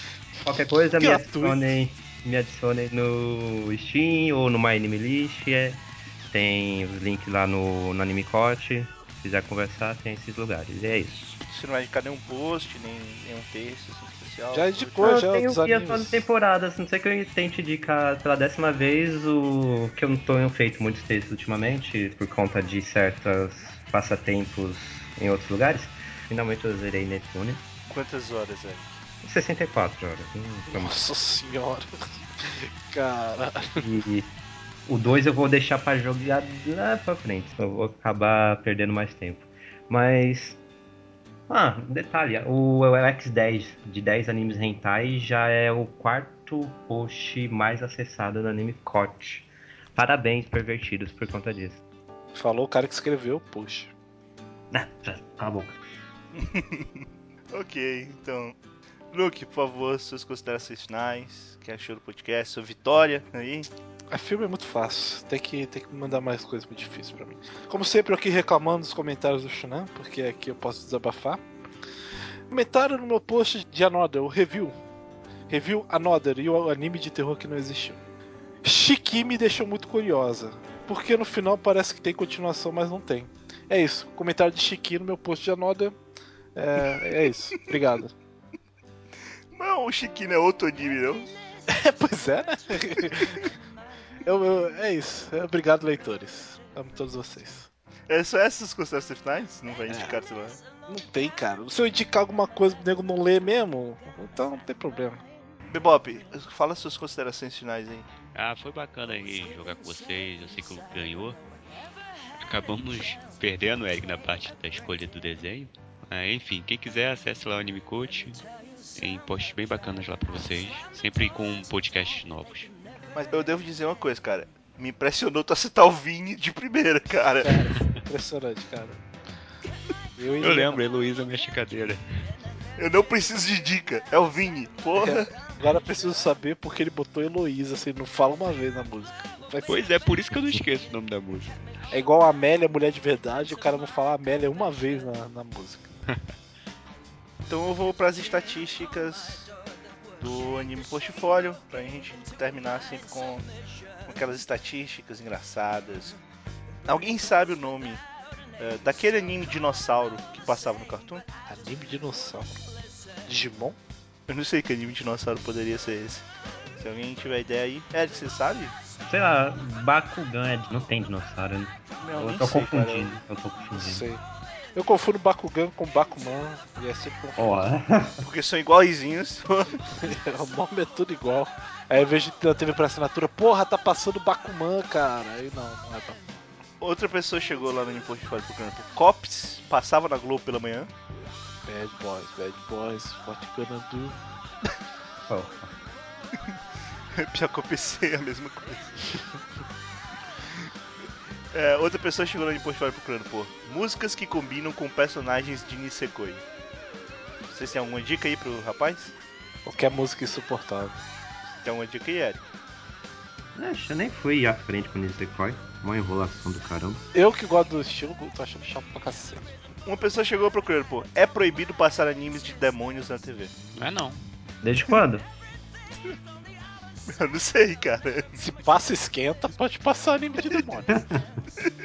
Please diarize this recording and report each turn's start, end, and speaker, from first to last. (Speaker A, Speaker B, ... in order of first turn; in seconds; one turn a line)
Speaker A: 0.4-11.4
Speaker B: 1.0-1.8
Speaker C: 11.4-15.0
Speaker B: 14.5-16.3
Speaker A: 15.0-27.6
Speaker C: 27.9-29.0
Speaker A: 29.2-31.0
Speaker B: 30.7-33.9
Speaker A: 33.8-34.3
Speaker A: 34.9-40.6
Speaker A: 41.5-51.8
Speaker B: 52.3-53.9
Speaker A: 54.7-55.7
Speaker C: 56.3-58.5
Speaker C: 59.1-63.7
Speaker B: 64.1-71.4
Speaker B: 72.5-74.7
Speaker B: 75.5-78.0
Speaker B: 78.6-86.0
Speaker B: 86.5-88.1
Speaker C: 89.5-91.3
Speaker B: 91.7-93.5
Speaker B: 94.2-97.7
Speaker C: 98.1-100.6
Speaker B: 99.9-100.2
Speaker B: 100.9-105.2
Speaker C: 105.7-108.1
Speaker D: 108.3-111.4
Speaker D: 112.4-118.4
Speaker D: 119.0-122.7
Speaker C: 123.1-127.5
Speaker B: 127.4-129.0
Speaker B: 130.2-130.8
Speaker D: 130.4-132.0
Speaker C: 132.8-135.3
Speaker B: 134.9-139.8
Speaker D: 139.7-141.6
Speaker B: 141.9-145.9
Speaker C: 147.5-149.5
Speaker C: 150.2-153.5
Speaker C: 154.1-156.2
Speaker C: 156.9-158.0
Speaker C: 158.6-161.2
Speaker B: 161.5-162.6
Speaker B: 163.3-163.8
Speaker C: 164.3-168.7
Speaker A: 169.1-174.1
Speaker C: 172.1-173.1
Speaker B: 172.2-173.1
Speaker B: 173.6-174.2
Speaker B: 174.7-177.7
Speaker A: 177.4-178.2
Speaker C: 178.2-180.1
Speaker B: 180.0-186.4
Speaker C: 186.8-190.9
Speaker B: 191.7-194.2
Speaker A: 195.3-195.7
Speaker C: 197.1-199.0
Speaker C: 201.5-206.4
Speaker C: 207.5-209.1
Speaker B: 209.6-211.0
Speaker C: 211.6-212.4
Speaker A: 213.6-217.0
Speaker B: 217.1-219.4
Speaker C: 219.9-223.5
Speaker D: 223.7-224.2
Speaker A: 224.6-225.3
Speaker C: 227.1-228.4
Speaker B: 228.4-231.1
Speaker A: 230.9-231.2